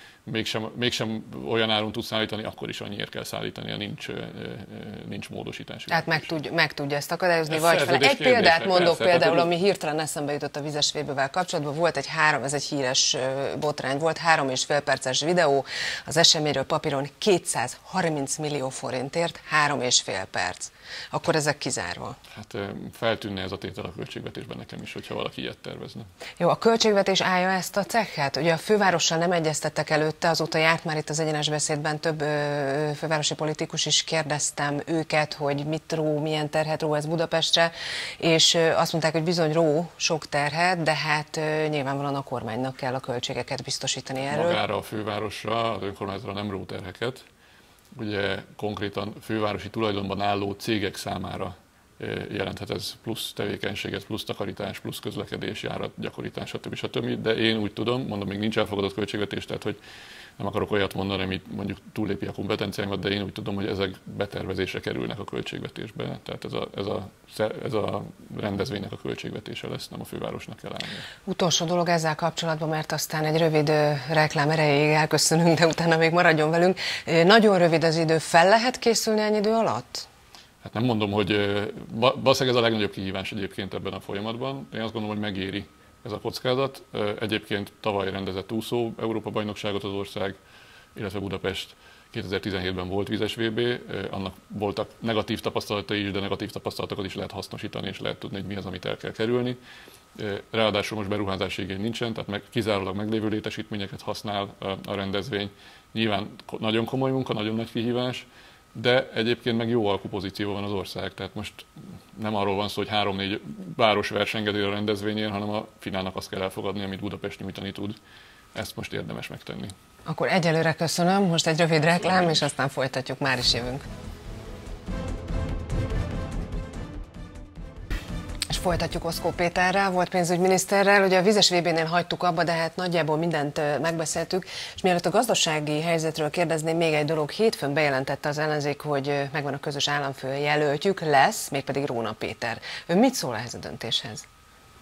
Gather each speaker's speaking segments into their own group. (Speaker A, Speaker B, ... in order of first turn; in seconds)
Speaker A: 0.2-6.3, 7.5-9.5, 22.3-26.1, 44.3-47.2, 47.9-59.8, 60.4-71.1, 80.6-90.4, 90.9-99.6, 100.2-118.0, 118.5-119.7
Speaker B: 5.9-22.2, 26.4-44.6, 71.2-80.1, 120.0-123.8, 128.5-144.2